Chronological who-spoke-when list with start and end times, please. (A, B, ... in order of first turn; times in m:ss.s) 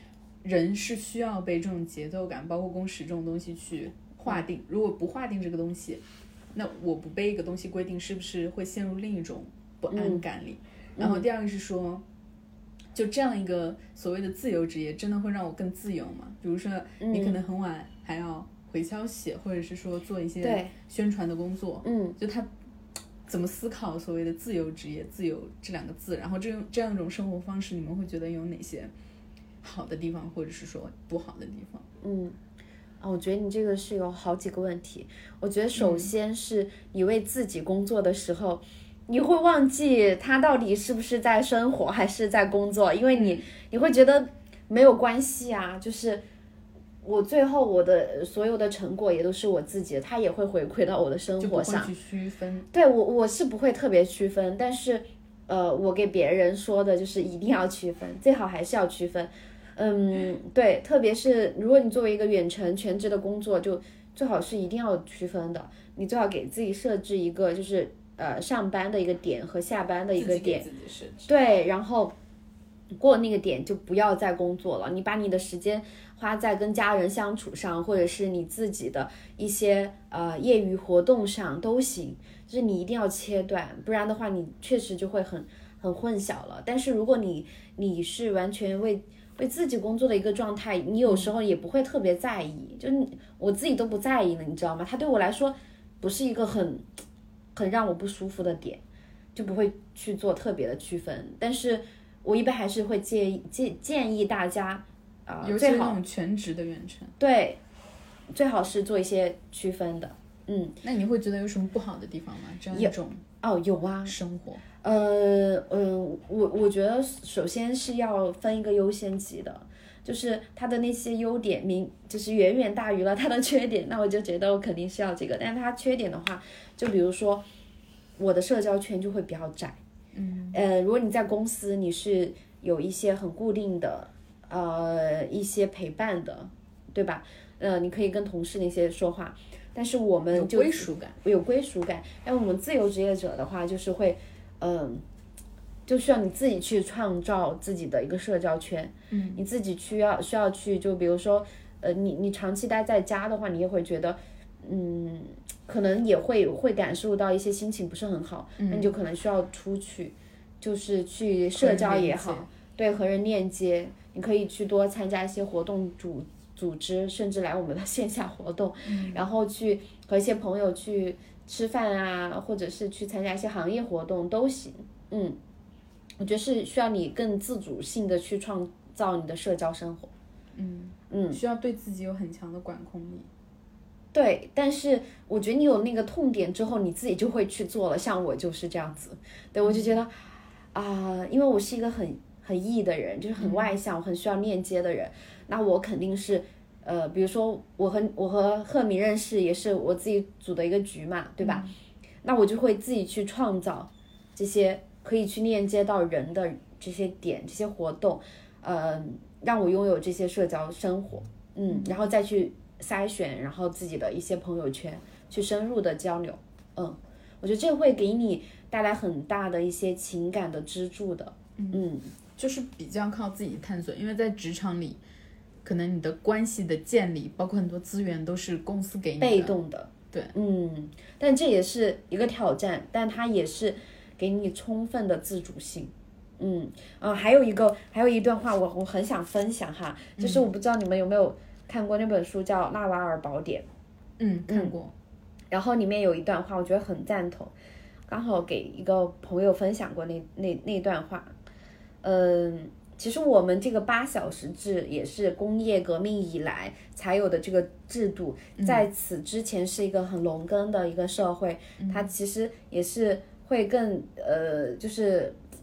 0:00.4-0:06.0 A
0:06.5-0:12.0 A
0:09.9-0:10.2 B
0:11.0-0:11.3 B
0:12.9-0:22.5 A
0:17.0-0:17.4 B
0:20.4-0:20.7 B
0:21.8-0:22.2 B
0:23.3-0:28.9 A
0:29.6-0:31.8 A
0:32.0-0:32.4 B
0:33.0-0:46.2 B
0:35.8-0:36.1 A
0:43.1-0:43.4 A
0:47.0-0:51.9 B
0:51.4-0:52.7 A
0:52.7-1:10.7 B
1:10.1-1:11.3 A
1:11.2-1:12.1 B
1:12.9-1:36.9 B
1:37.5-1:38.8 B
1:39.3-1:46.0 B
1:45.4-1:47.1 A
1:47.2-1:47.6 B
1:48.3-1:50.8 B
1:50.8-1:53.2 A
1:52.7-1:54.2 B
1:54.0-1:54.6 A
1:54.8-2:07.4 B
2:08.2-2:09.8 B
2:10.1-2:10.6 A
2:10.5-2:25.0 B
2:20.3-2:21.2 A
2:25.8-2:55.4 B
2:29.1-2:29.4 A
2:38.6-2:38.9 A
2:41.5-2:42.5 A
2:48.8-2:49.2 A
2:56.2-3:00.1 B
3:00.6-3:03.3 A
3:01.1-3:01.4 B
3:04.1-3:21.7 B
3:09.6-3:10.0 A
3:13.4-3:13.8 A
3:21.4-3:21.7 A
3:22.2-3:42.1 B
3:31.7-3:32.0 A
3:41.6-3:41.8 A
3:42.4-3:45.0 A
3:45.6-3:49.6 A
3:49.2-4:03.7 B
4:00.2-4:00.5 A
4:04.2-4:04.9 A
4:04.5-4:04.8 B
4:05.5-4:07.5 B
4:08.1-4:11.3 B
4:12.0-4:25.4 B
4:18.6-4:18.9 A
4:21.8-4:22.1 A